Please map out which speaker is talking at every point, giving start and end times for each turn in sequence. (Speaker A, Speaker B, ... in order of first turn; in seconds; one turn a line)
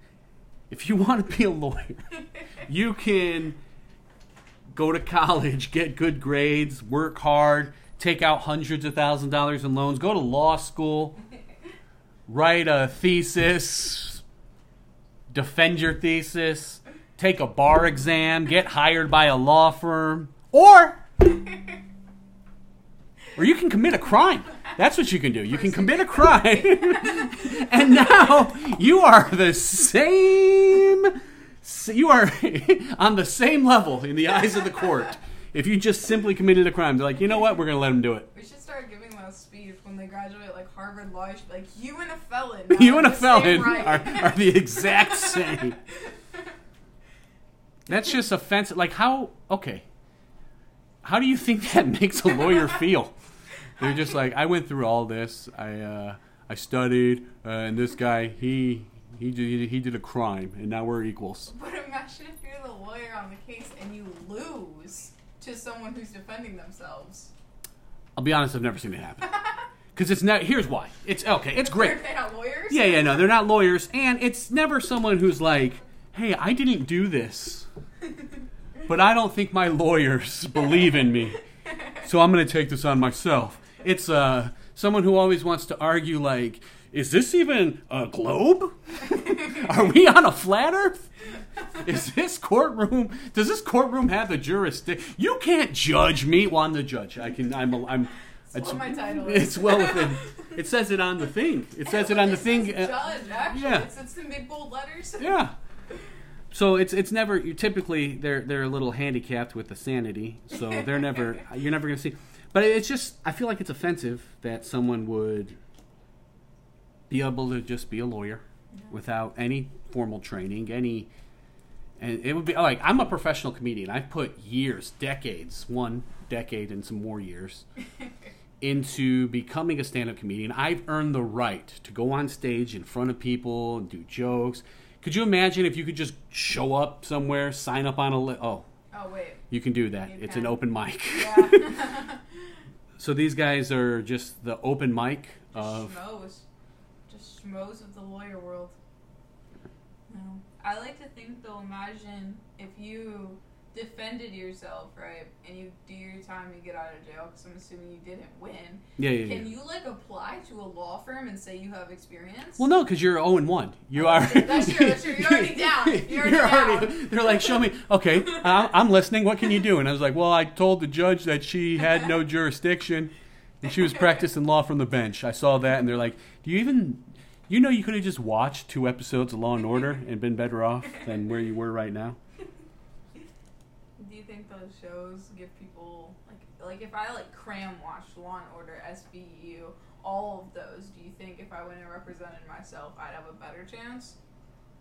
Speaker A: 0.7-3.6
Speaker A: 4.7-11.2
Speaker A: 12.3-14.2
Speaker A: 15.3-21.0
Speaker A: 23.4-38.3
Speaker B: 25.5-27.9
Speaker B: 38.3-46.5
Speaker A: 42.7-45.8
Speaker A: 47.9-49.9
Speaker A: 51.0-53.1
Speaker A: 53.8-61.5
Speaker B: 61.5-67.3
Speaker A: 68.2-69.4
Speaker A: 69.9-72.0
Speaker B: 71.5-73.3
Speaker A: 72.7-77.7
Speaker A: 78.9-81.4
Speaker B: 81.7-82.0
Speaker A: 82.0-91.0
Speaker A: 91.7-103.9
Speaker B: 98.5-100.6
Speaker B: 101.8-105.4
Speaker A: 105.2-105.6
Speaker A: 106.5-115.6
Speaker A: 117.1-121.1
Speaker A: 122.0-127.7
Speaker A: 128.6-138.7
Speaker B: 138.9-139.5
Speaker A: 139.5-141.9
Speaker B: 140.0-140.6
Speaker B: 141.1-142.5
Speaker A: 143.0-145.9
Speaker B: 145.6-146.5
Speaker B: 147.1-148.8
Speaker B: 150.1-162.7
Speaker A: 159.0-159.4
Speaker A: 162.6-182.2
Speaker B: 164.0-167.7
Speaker B: 168.2-168.7
Speaker B: 184.0-194.2